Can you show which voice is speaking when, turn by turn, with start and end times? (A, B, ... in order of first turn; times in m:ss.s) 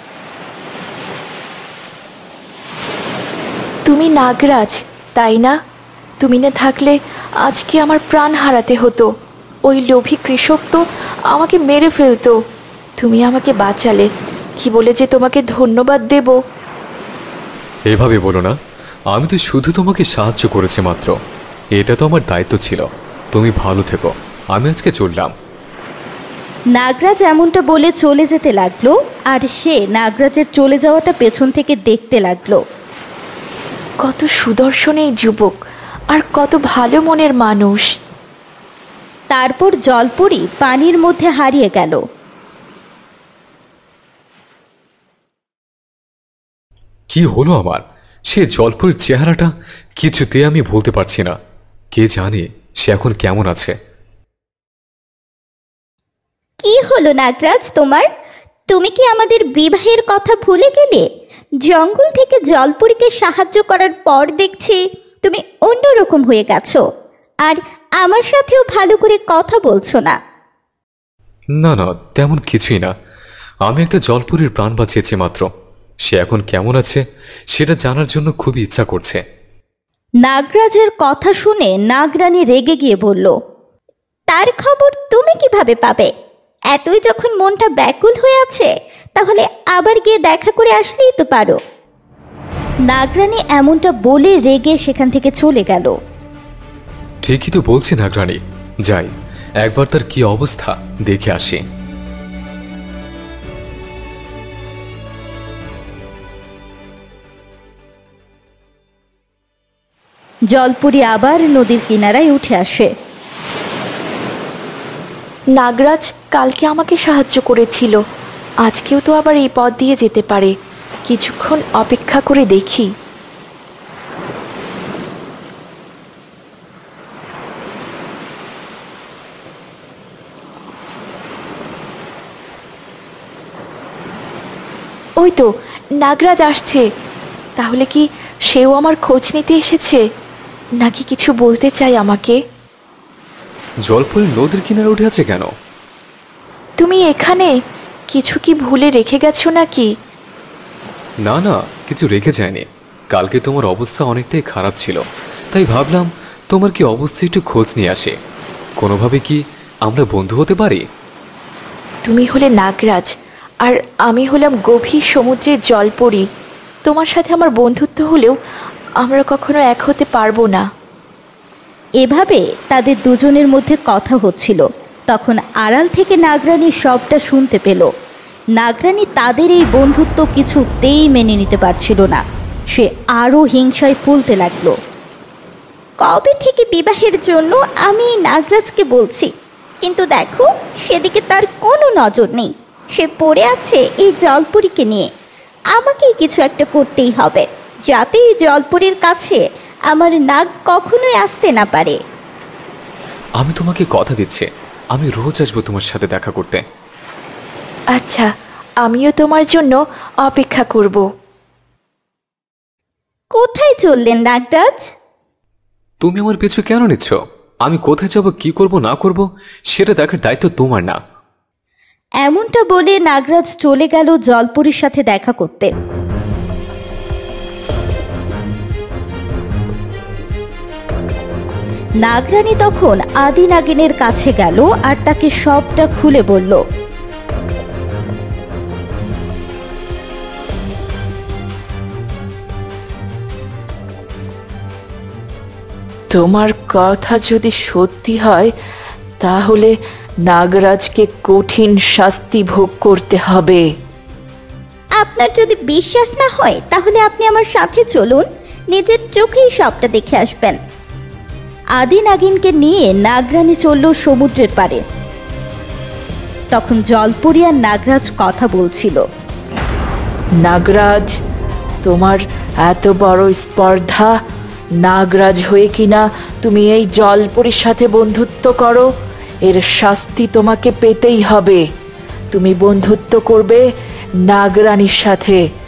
0:03.9-0:05.6 A
0:06.2-0:09.1 A
0:09.7-0:12.4 A
0:13.0-0:14.1 A
0:14.6-0:16.4 A
0:17.9-0:18.6 B
0:19.1-0:21.1 B
0:21.8-0:25.3 B
0:26.8-0:32.6 C
0:34.0-0:35.5 A
0:36.1-0:37.8 A
0:39.3-0:42.0 C
0:47.1-0:51.4 B
0:51.9-0:53.8 B
0:56.6-0:58.1 C
0:58.7-1:01.1 C
1:01.7-1:06.8 C
1:07.5-1:10.2 C
1:11.6-1:12.9 B
1:13.7-1:15.5 B
1:16.1-1:17.0 B
1:17.5-1:19.2 B
1:20.2-1:23.3 C
1:24.3-1:26.1 C
1:26.7-1:31.6 C
1:32.9-1:36.0 C
1:37.2-1:39.1 B
1:39.6-1:41.6 B
1:50.5-1:52.9 C
1:55.6-1:58.0 A
1:58.6-2:00.5 A
2:01.1-2:02.9 A
2:15.2-2:15.5 A
2:16.0-2:16.8 A
2:17.6-2:20.0 A
2:20.8-2:22.4 A
2:23.9-2:25.5 B
2:26.8-2:27.5 A
2:28.1-2:29.9 A
2:31.2-2:35.0 B
2:35.5-2:38.2 B
2:38.8-2:40.8 B
2:42.1-2:43.1 A
2:43.6-2:46.2 A
2:46.9-2:48.4 A
2:49.0-2:50.6 A
2:52.0-2:57.9 C
2:58.6-3:02.2 C
3:02.7-3:04.8 C
3:06.0-3:09.3 C
3:09.8-3:15.1 C
3:15.8-3:22.0 C
3:23.4-3:26.6 B
3:28.0-3:28.3 A
3:28.8-3:31.0 A
3:33.4-3:34.8 C
3:36.0-3:41.0 B
3:42.2-3:45.7 C
3:52.0-3:56.6 C
4:06.1-4:08.5 A
4:09.2-4:09.7 A
4:10.3-4:13.6 A
4:15.0-4:20.6 C
4:21.8-4:24.8 C
4:26.5-4:29.0 C
4:30.4-4:31.1 A
4:31.8-4:34.1 A
4:34.8-4:38.9 A
4:39.5-4:41.6 A
4:42.3-4:43.6 A
4:44.3-4:45.4 A